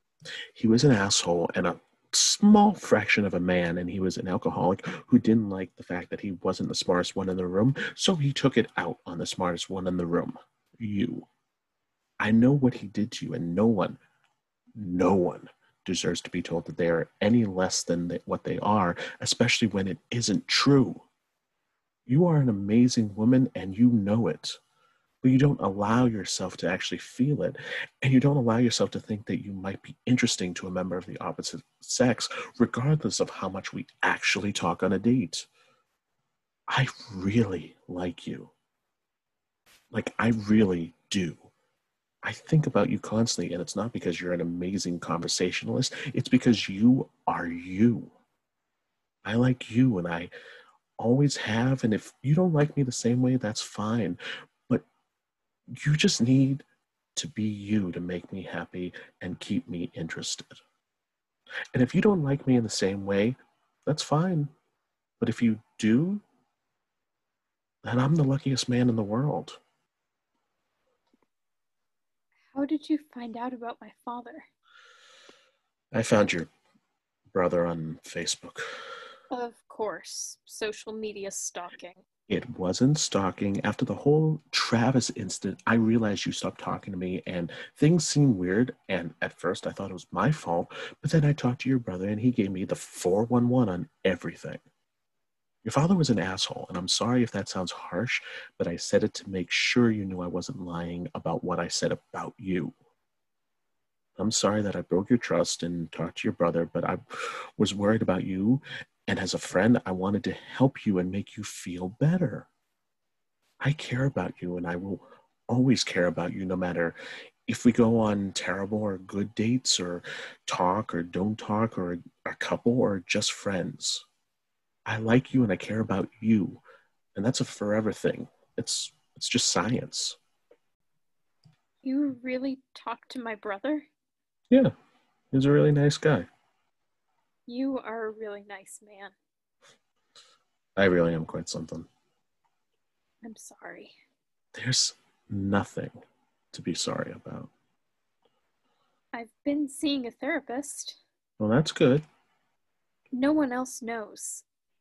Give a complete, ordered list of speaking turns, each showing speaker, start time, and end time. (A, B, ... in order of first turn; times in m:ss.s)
0:00.5-0:11.3 A
0:12.2-0:14.0 A
0:14.8-0:21.0 A
0:22.1-0:24.6 A
0:25.2-0:35.5 A
0:36.7-0:38.5 A
0:39.9-0:41.5 A
0:42.2-0:48.1 A
0:49.2-0:50.3 A
0:51.0-0:54.8 A
0:55.7-1:00.6 A
1:01.7-1:04.5 A
1:05.2-1:06.2 A
1:07.8-1:09.6 A
1:12.5-1:14.5 B
1:15.9-1:16.5 A
1:17.3-1:18.6 A
1:19.3-1:22.0 B
1:22.3-1:34.6 A
1:35.6-1:42.8 A
1:44.2-1:47.0 A
1:47.6-1:52.5 A
1:53.6-2:04.0 A
2:04.9-2:06.6 A
2:07.2-2:10.2 A
2:11.8-2:13.9 B
2:15.3-2:16.3 A
2:17.5-2:19.1 B
2:20.8-2:21.9 A
2:23.2-2:24.0 B
2:24.5-2:26.0 A
2:26.5-2:27.5 A
2:29.1-2:31.0 B
2:31.4-2:32.0 A
2:33.1-2:34.4 B